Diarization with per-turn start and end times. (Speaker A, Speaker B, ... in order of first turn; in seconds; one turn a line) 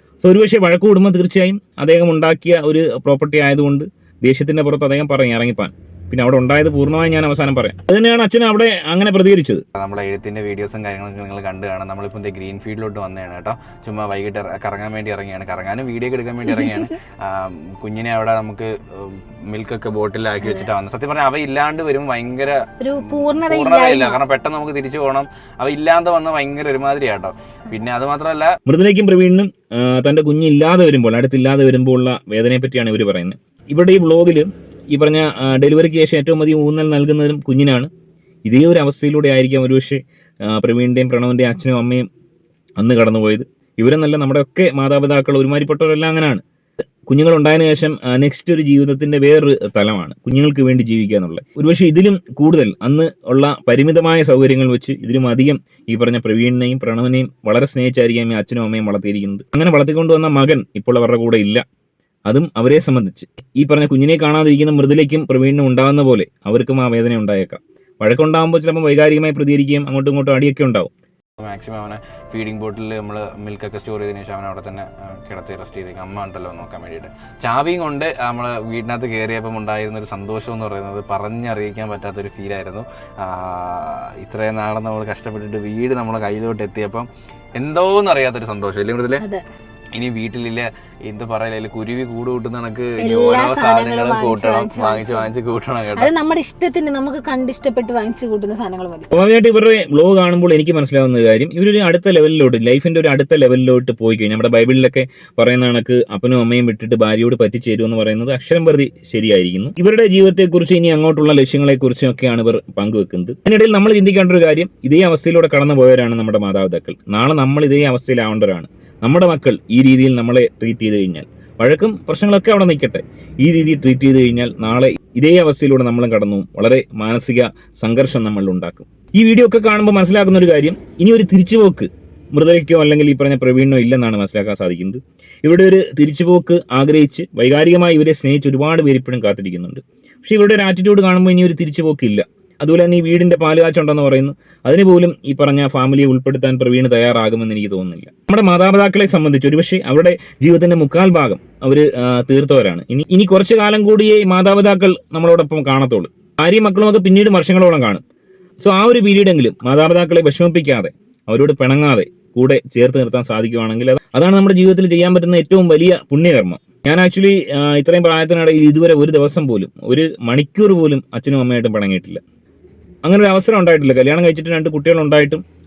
Speaker A: 0.2-9.6
Speaker B: 9.8-28.6
Speaker C: 22.8-24.2
Speaker A: 28.7-37.9
Speaker A: 38.5-42.1
Speaker A: 42.8-46.4
Speaker A: 47.1-61.6
Speaker A: 62.3-70.9
Speaker B: 71.4-89.2
Speaker C: 89.2-89.4
Speaker B: 89.9-96.1
Speaker C: 93.0-95.3
Speaker C: 95.9-99.1
Speaker A: 99.1-158.0
Speaker A: 158.6-172.2
Speaker A: 173.0-175.4